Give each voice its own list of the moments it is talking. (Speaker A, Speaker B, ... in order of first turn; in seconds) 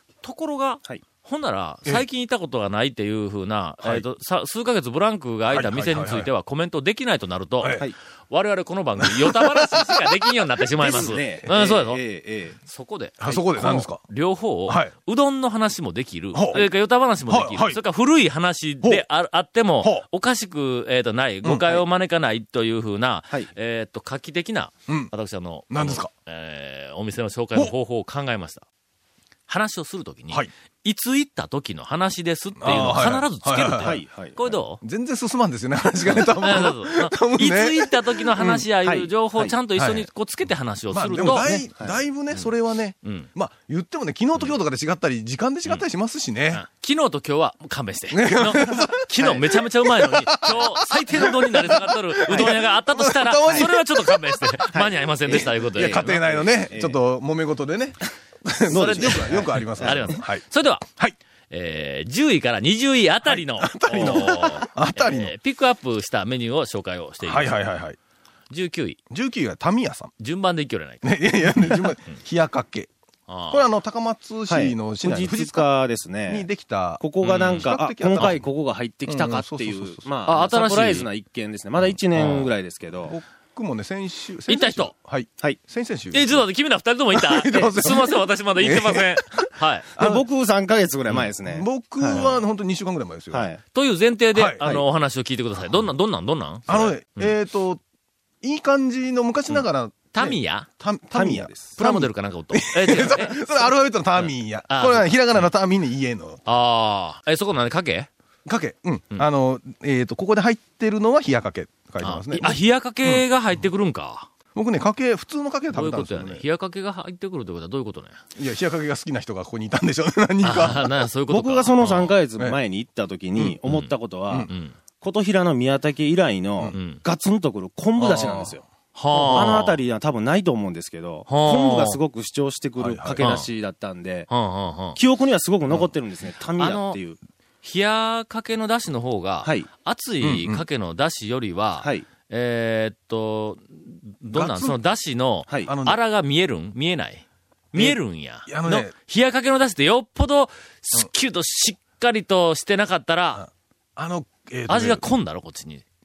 Speaker A: 0.2-12.0, 12.7-28.6, 29.5-34.8, 36.4-41.5, 43.0-43.3, 46.5-56.3, 58.7-60.9, 61.5-67.6, 68.5-69.0, 70.2-72.2, 73.3-73.6, 77.2-78.4, 80.2-81.1, 82.1-82.5, 84.5-84.9, 86.1-89.9, 93.7-97.3, 100.1-100.7, 101.8-103.4, 104.2-105.4, 106.5-108.1, 112.0-114.3, 115.7-118.2, 120.4-122.2, 123.6-123.9, 124.5-124.8, 126.7-127.0, 128.9-129.8, 131.3-132.0, 133.2-133.5, 134.3-135.0, 136.6-137.0, 137.6-153.4, 154.7-155.8
Speaker B: 5.5-6.3, 7.6-7.9, 9.0-9.9, 13.2-14.0, 14.7-14.9, 16.3-16.6, 17.3-17.8, 21.4-21.8, 24.9-25.1, 25.7-26.1, 32.6-34.0, 34.8-38.6, 39.8-40.1, 40.9-46.6, 48.1-54.5, 55.3-61.1, 63.2-65.3, 67.2-68.0, 69.1-70.1, 71.0-72.9, 73.5-75.7, 76.3-78.4, 79.0-80.0, 83.0-86.4, 87.1-90.2, 91.4-93.5, 94.3-94.6, 96.7-97.8, 98.4-106.4, 108.4-113.2, 114.5-116.4, 118.3-120.9, 128.0-128.5, 132.8-133.3, 140.2-140.6, 144.3-144.8, 145.6-146.0, 147.7-148.9, 153.3-155.1
Speaker C: 10.8-12.6, 33.8-34.4, 38.8-39.5, 41.3-41.9, 54.7-57.0, 58.7-60.2, 74.5-76.5, 77.0-83.2, 90.0-92.3, 93.3-93.6, 101.1-101.8, 121.3-124.5, 125.0-134.3, 134.9-137.2